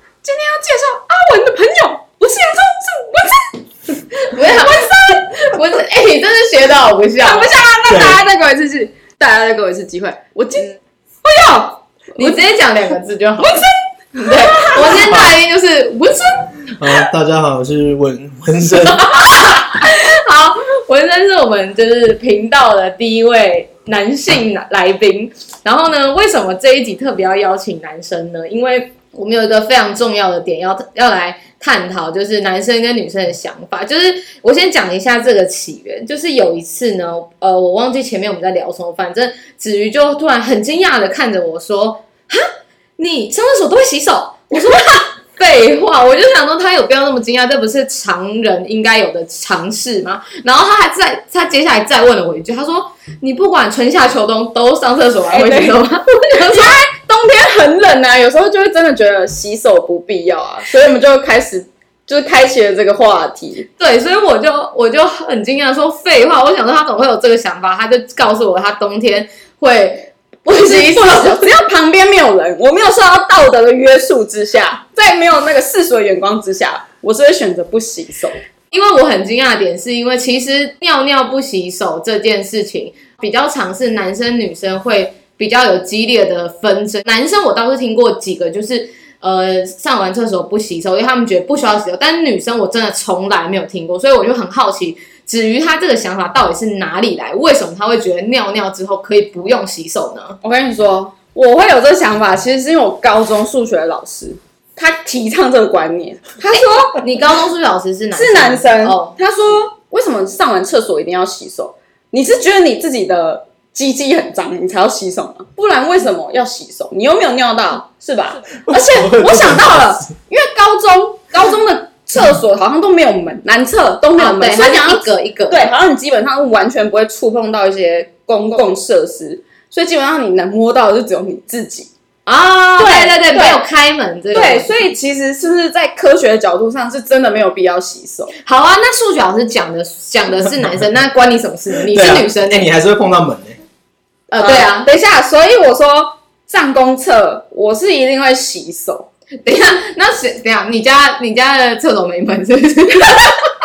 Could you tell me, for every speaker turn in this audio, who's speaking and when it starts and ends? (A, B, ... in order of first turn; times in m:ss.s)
0:00.2-0:03.5 A
0:04.3-0:07.5 B
0:04.3-0:05.5 A
0:07.2-0:12.4 A
0:07.9-0:08.2 C
0:12.2-0:16.7 B
0:14.2-0:15.0 A
0:14.9-0:15.4 C
0:16.8-0:19.3 C
0:19.0-0:42.5 B
0:43.0-0:56.8 B
0:55.3-0:55.8 A
0:56.5-1:03.7 A
1:03.8-1:11.5 B
1:10.5-1:18.4 A
1:18.7-1:40.4 B
1:40.4-1:47.0 A
1:46.5-1:49.2 B
1:48.1-2:11.9 A
1:58.7-2:00.1 C
2:04.2-2:05.7 B
2:12.3-2:14.7 B
2:12.8-2:13.6 A
2:14.3-2:18.3 A
2:18.4-2:22.7 B
2:21.9-2:23.6 C
2:24.3-2:29.1 A
2:24.3-2:24.9 B
2:29.4-2:33.5 B